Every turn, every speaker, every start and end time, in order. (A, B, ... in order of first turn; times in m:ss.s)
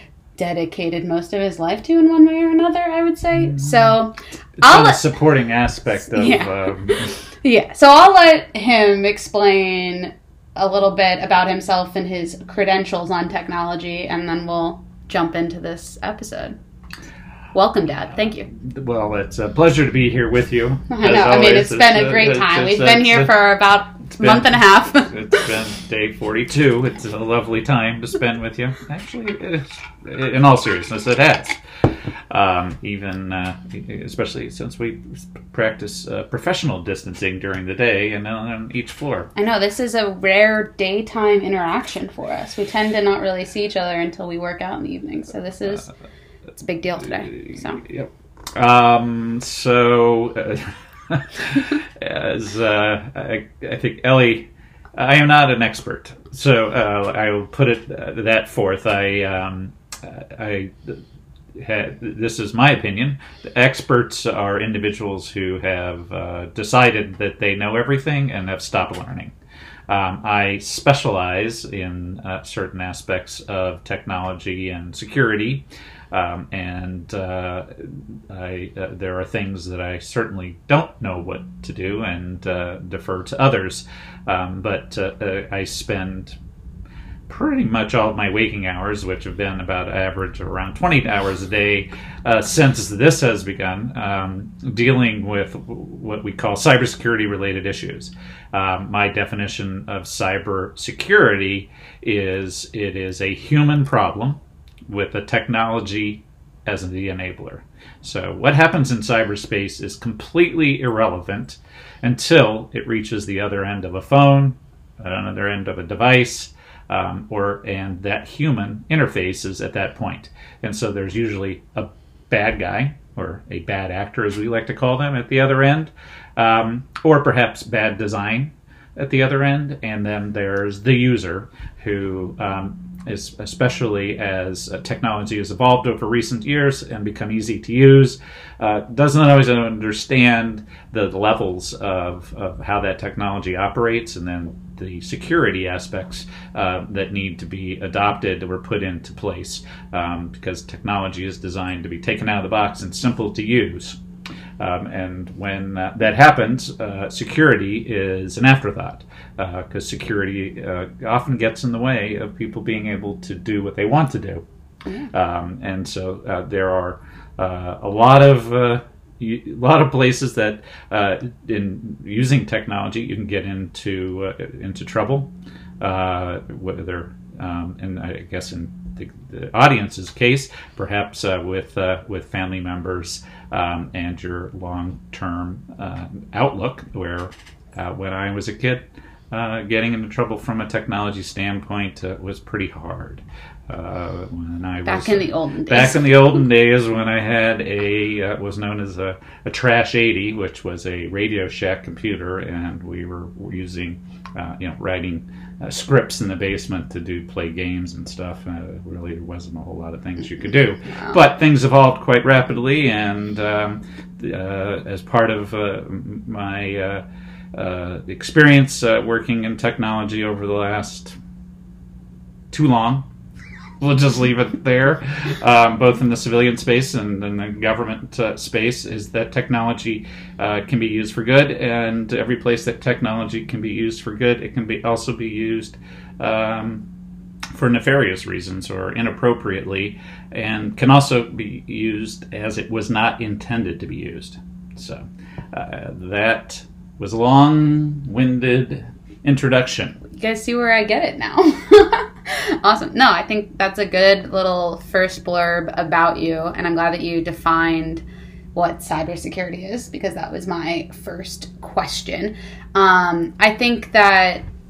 0:00.4-0:05.0 A
0:04.6-0:07.1 B
0:06.1-0:16.6 A
0:17.5-0:18.5 A
0:18.6-0:23.3 B
0:20.9-0:25.5 A
0:24.2-0:31.6 B
0:32.3-0:39.3 B
0:39.4-0:45.9 A
0:46.6-0:47.8 A
0:47.3-1:01.0 B
1:01.5-1:09.3 B
1:09.9-1:26.4 B
1:27.3-2:34.0 B
2:34.6-2:44.4 B
2:45.1-3:37.0 B
3:14.8-3:16.1 A
3:37.5-3:41.2 B
3:42.5-3:43.1 B
3:43.8-3:56.8 B
3:57.5-4:10.0 B
4:10.1-4:18.0 A
4:18.5-4:24.4 A